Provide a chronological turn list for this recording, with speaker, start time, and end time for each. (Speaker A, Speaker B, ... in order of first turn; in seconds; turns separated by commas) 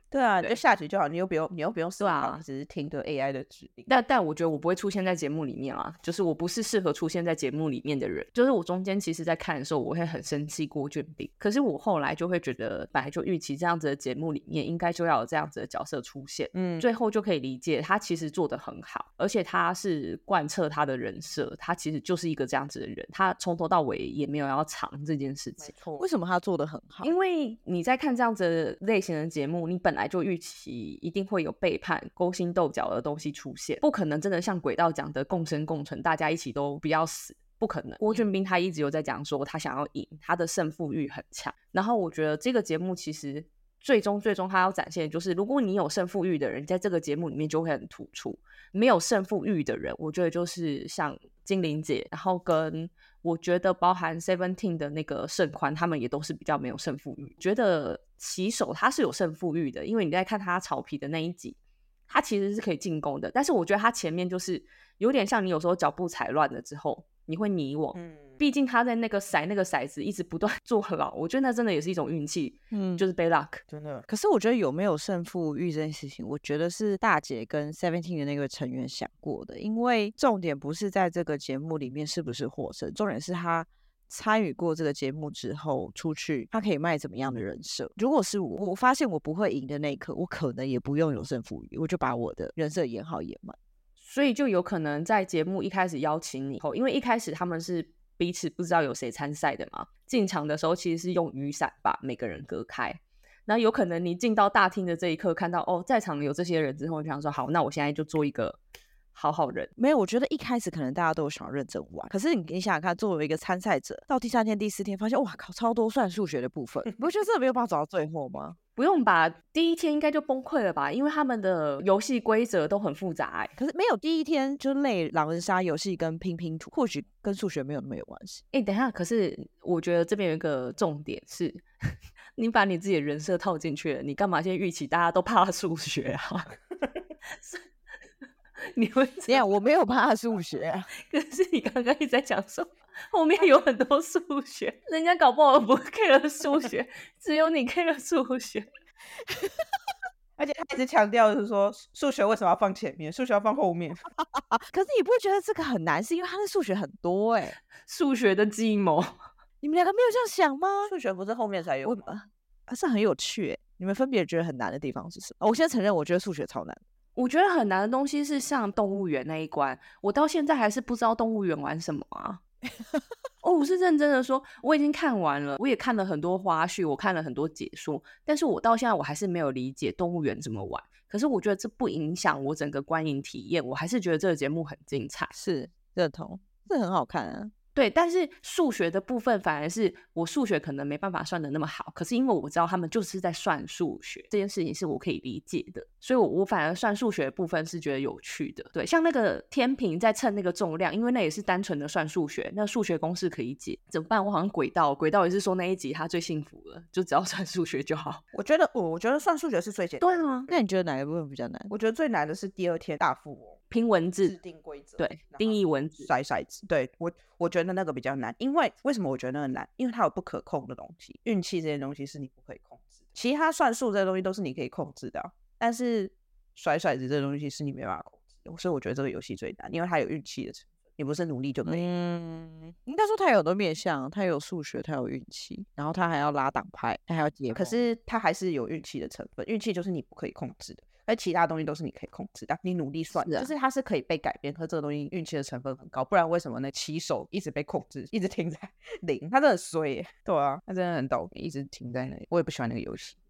Speaker A: 0.1-3.9, Speaker B: 2.0-2.4, Speaker B: 3.9-25.7, Speaker A: 16.5-16.9, Speaker A: 25.6-26.1, Speaker C: 26.0-27.1, Speaker B: 27.0-61.6, Speaker B: 62.1-73.6, Speaker A: 67.9-68.4, Speaker C: 72.7-73.0, Speaker A: 73.7-74.0, Speaker C: 74.1-93.5, Speaker B: 94.0-108.6, Speaker B: 109.1-109.7, Speaker C: 109.8-118.6, Speaker B: 118.8-123.5, Speaker C: 123.6-128.4, Speaker B: 128.5-131.6, Speaker B: 132.3-136.5, Speaker B: 137.3-137.6, Speaker B: 138.7-139.5, Speaker C: 139.3-140.9, Speaker B: 141.0-148.7, Speaker A: 150.4-154.0, Speaker C: 154.3-157.6, Speaker B: 157.8-159.1, Speaker C: 159.6-160.9, Speaker A: 160.8-162.2, Speaker C: 161.8-166.8, Speaker B: 167.1-172.4, Speaker B: 173.4-185.3, Speaker C: 185.3-187.5, Speaker B: 187.7-208.2, Speaker A: 208.3-210.6, Speaker B: 210.0-210.5, Speaker C: 210.5-211.7, Speaker A: 211.7-213.6, Speaker B: 213.7-214.3, Speaker A: 214.2-231.9, Speaker B: 215.0-216.1, Speaker C: 231.6-237.8, Speaker A: 237.5-253.2, Speaker B: 243.2-243.5